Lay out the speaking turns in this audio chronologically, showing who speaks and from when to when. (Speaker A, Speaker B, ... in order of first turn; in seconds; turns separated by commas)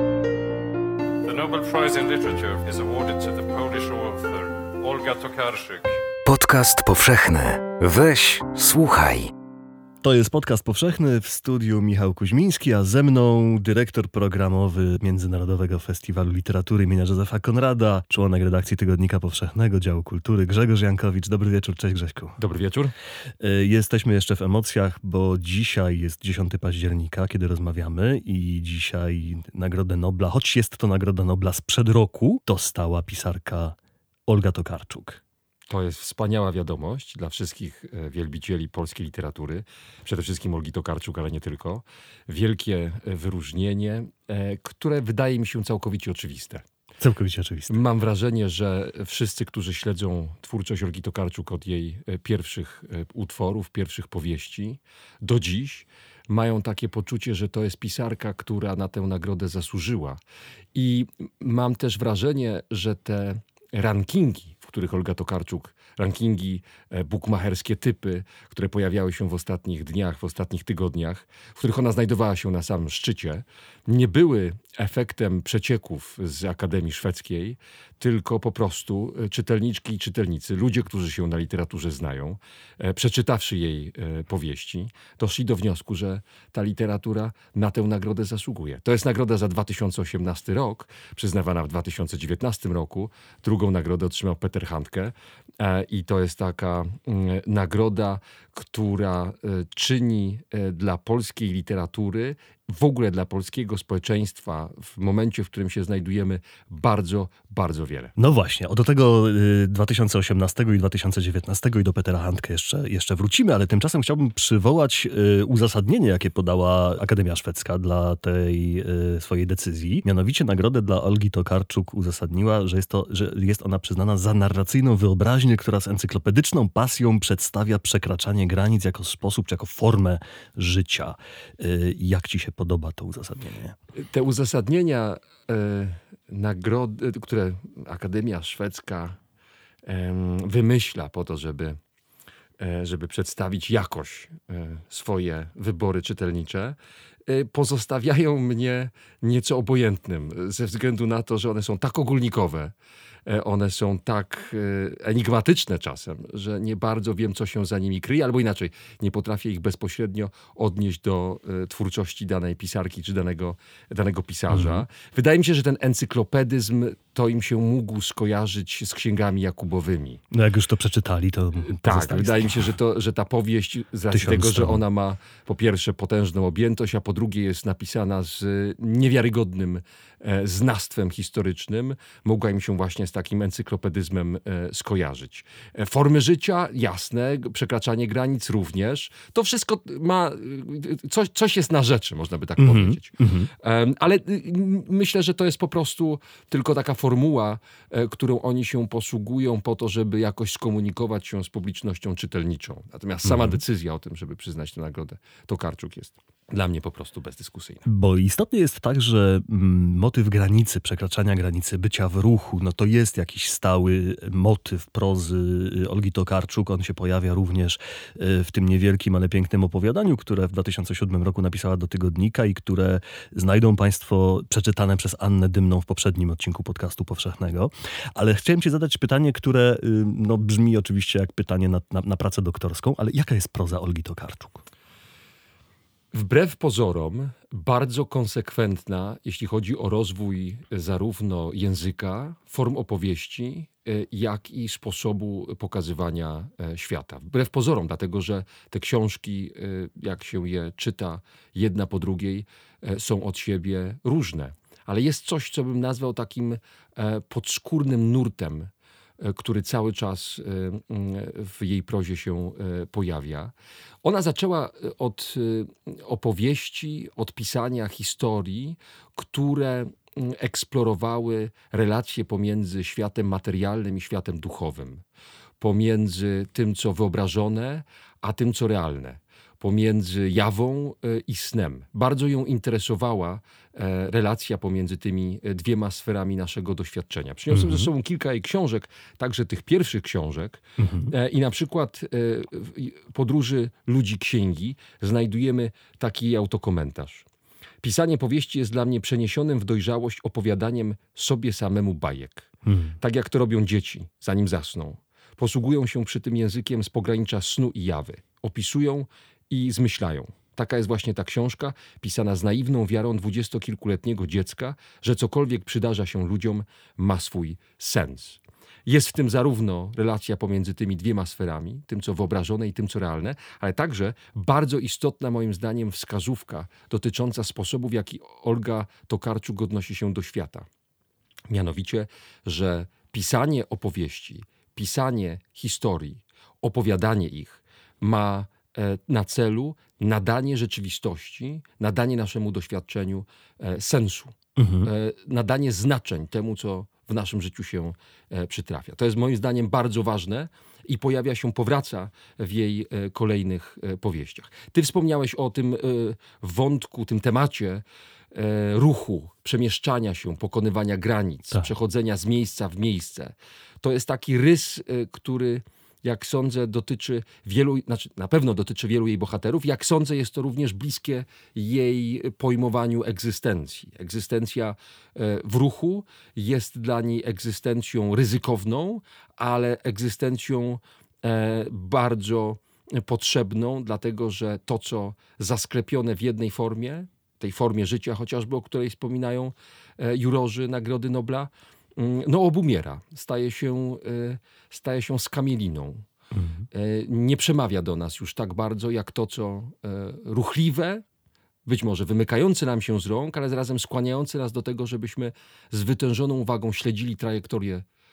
Speaker A: 1.2-6.0, Speaker B: 6.2-9.3, Speaker C: 10.0-22.4, Speaker D: 22.4-22.9, Speaker C: 23.4-35.2, Speaker D: 35.7-46.6, Speaker C: 47.0-47.8, Speaker D: 47.7-60.2, Speaker D: 60.7-108.1, Speaker C: 108.2-133.7, Speaker D: 134.0-139.2, Speaker D: 139.8-141.8, Speaker D: 142.6-152.7, Speaker D: 153.2-170.2, Speaker C: 164.5-164.8, Speaker C: 170.3-172.7, Speaker D: 171.6-207.8, Speaker C: 174.1-174.8, Speaker C: 192.6-193.5, Speaker C: 203.2-203.6, Speaker C: 207.8-234.6, Speaker D: 236.1-275.0, Speaker D: 275.6-297.2, Speaker C: 287.5-287.9, Speaker C: 290.8-291.1, Speaker D: 297.8-302.5, Speaker C: 302.6-302.9, Speaker D: 303.0-330.7, Speaker D: 331.5-396.1, Speaker C: 344.6-344.9, Speaker C: 396.3-396.6, Speaker D: 396.7-401.0, Speaker D: 401.6-407.8